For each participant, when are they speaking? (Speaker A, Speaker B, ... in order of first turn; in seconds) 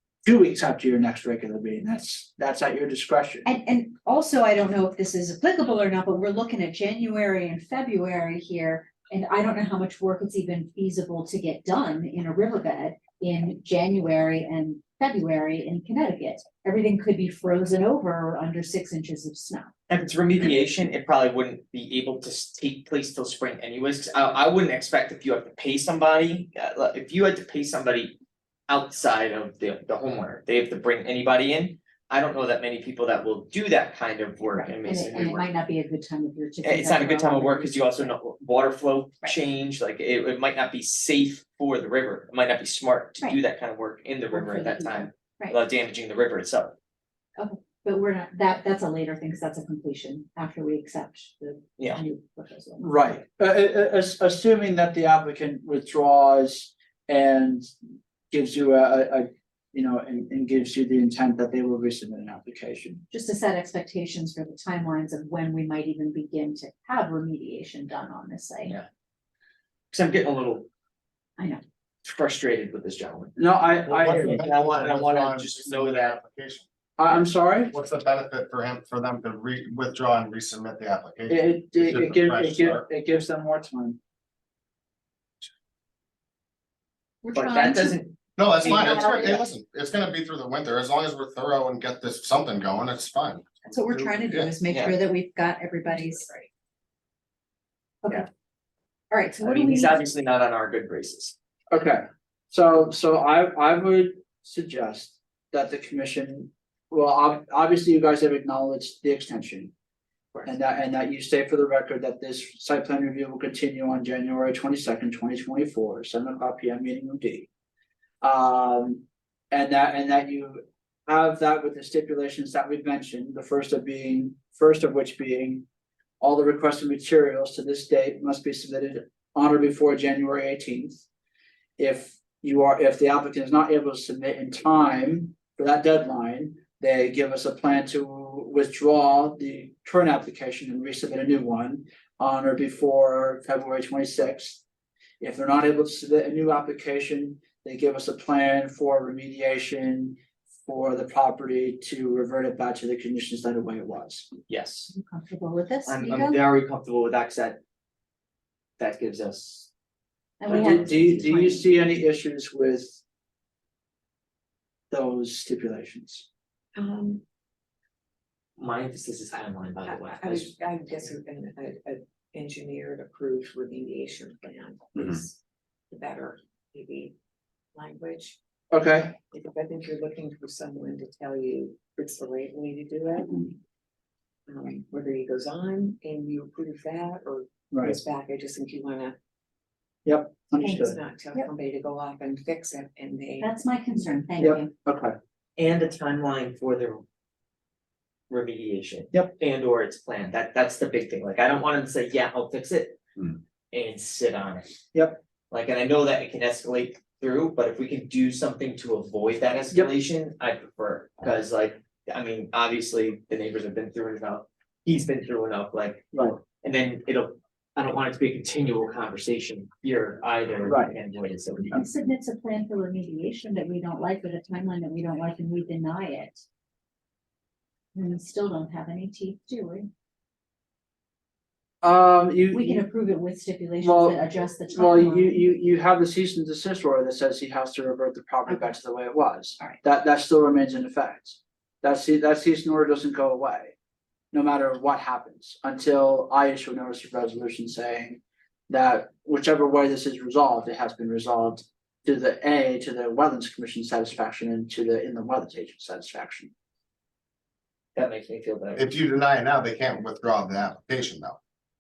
Speaker A: 0.2-3.5, 52.8-57.7, 58.3-63.0, 73.4-74.3, 77.0-77.8, 81.3-84.0, 101.7-109.7, 110.5-117.5, 118.2-125.7, 126.2-131.1, 131.8-144.6, 145.2-154.3, 160.5-163.0, 164.9-166.3, 178.7-179.2, 187.7-188.0, 190.1-191.0, 194.4-195.2, 204.9-205.2, 220.7-221.0, 231.8-232.8, 233.8-243.7, 244.3-256.5
Speaker B: 3.5-19.7, 34.5-38.1, 44.3-45.6, 47.4-52.9, 63.1-68.8, 87.2-88.0, 88.7-89.3, 93.7-96.3, 99.1-100.0, 154.9-156.4, 160.4-161.7, 193.4-194.7, 221.7-226.4, 227.9-229.9, 232.5-235.4, 238.5-238.7
Speaker C: 19.9-35.5, 36.6-46.8, 69.9-70.7, 72.0-76.2, 87.3-89.5, 94.7-95.0, 99.4-101.3, 154.5-154.9, 155.9-157.6, 158.8-159.7, 160.4-161.5, 168.6-170.5, 195.6-197.0, 198.3-204.7, 205.5-221.8, 258.0-258.9
Speaker D: 73.9-82.8, 88.4-94.5, 258.8-261.4
Speaker E: 166.8-167.2, 169.8-175.4, 175.9-177.2, 177.8-178.4, 179.2-183.6, 184.5-189.2, 190.7-193.5